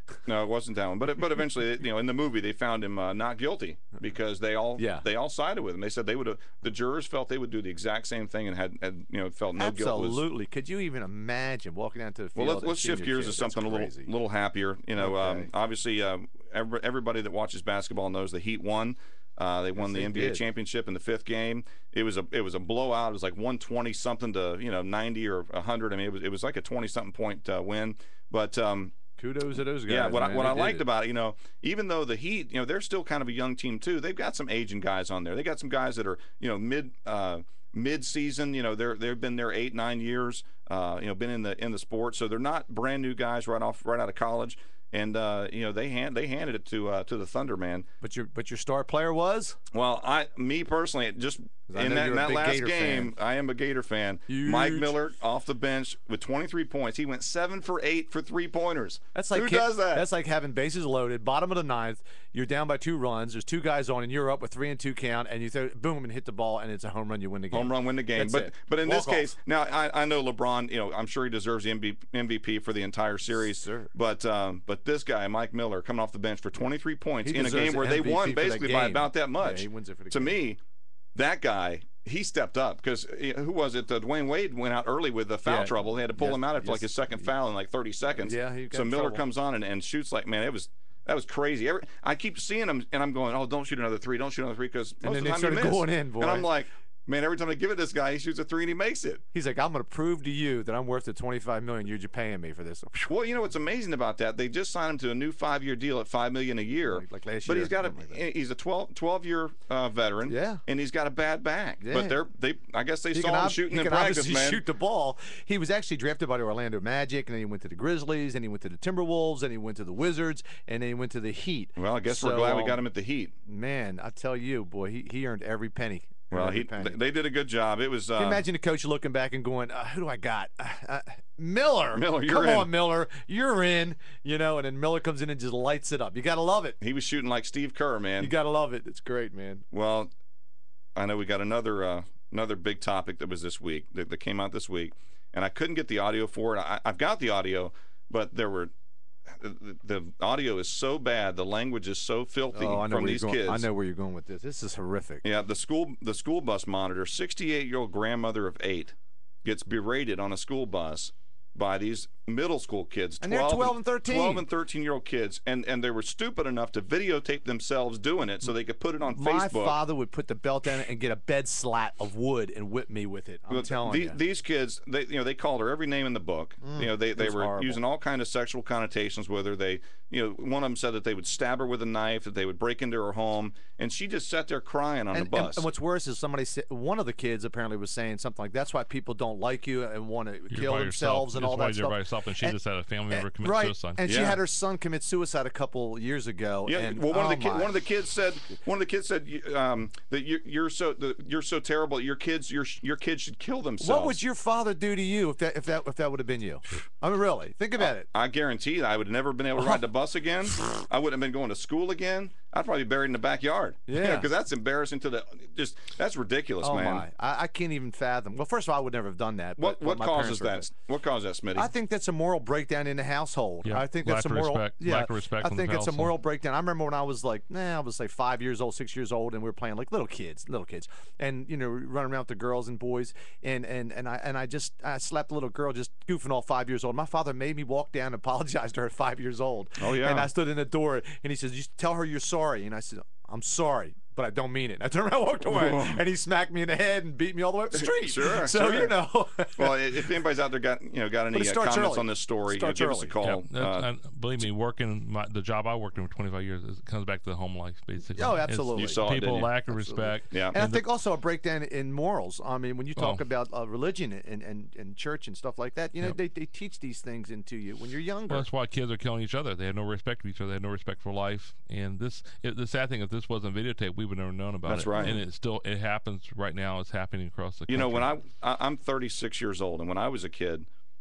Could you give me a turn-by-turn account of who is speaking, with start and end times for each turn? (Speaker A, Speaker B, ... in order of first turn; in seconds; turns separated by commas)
Speaker A: 0.3-10.2, Speaker B: 4.8-5.0, Speaker B: 9.6-14.1, Speaker A: 12.3-28.9, Speaker B: 15.0-15.5, Speaker B: 19.8-20.4, Speaker B: 29.2-30.9, Speaker A: 29.9-47.9, Speaker B: 48.0-49.6, Speaker A: 49.7-60.1, Speaker B: 51.7-53.1, Speaker B: 54.3-55.0, Speaker B: 59.1-69.3, Speaker A: 67.5-80.6, Speaker B: 73.4-73.9, Speaker B: 77.2-80.4, Speaker A: 81.1-99.2, Speaker B: 85.5-87.3, Speaker B: 88.2-89.2, Speaker B: 95.0-96.5, Speaker B: 99.3-102.9, Speaker A: 102.9-114.6, Speaker B: 106.8-108.2, Speaker B: 110.2-110.6, Speaker B: 111.8-112.2, Speaker B: 113.1-122.8, Speaker A: 121.8-123.3, Speaker B: 123.5-127.0, Speaker A: 126.3-128.4, Speaker B: 128.2-136.8, Speaker A: 131.9-132.7, Speaker A: 136.8-138.3, Speaker B: 138.2-139.6, Speaker A: 139.7-140.1, Speaker A: 140.9-148.7, Speaker A: 149.3-153.7, Speaker B: 152.5-155.2, Speaker A: 155.2-169.8, Speaker B: 163.2-164.5, Speaker B: 169.1-174.2, Speaker A: 173.5-185.7, Speaker B: 176.6-177.8, Speaker B: 185.1-192.6, Speaker C: 190.5-194.3, Speaker B: 193.1-197.7, Speaker A: 194.0-194.4, Speaker A: 196.7-204.2, Speaker B: 203.8-208.1, Speaker A: 207.8-217.1, Speaker B: 213.9-214.3, Speaker B: 216.6-220.7, Speaker A: 219.6-221.7, Speaker B: 221.5-250.0, Speaker C: 223.6-226.1, Speaker A: 239.8-240.3, Speaker A: 245.5-246.0, Speaker A: 247.7-249.0, Speaker A: 249.6-253.9, Speaker B: 251.3-253.2, Speaker C: 253.2-260.8, Speaker B: 258.1-259.1, Speaker A: 258.8-259.5, Speaker B: 259.7-268.5, Speaker A: 260.3-260.6, Speaker C: 263.0-263.2, Speaker C: 268.3-278.1, Speaker A: 274.7-275.2, Speaker A: 277.7-280.7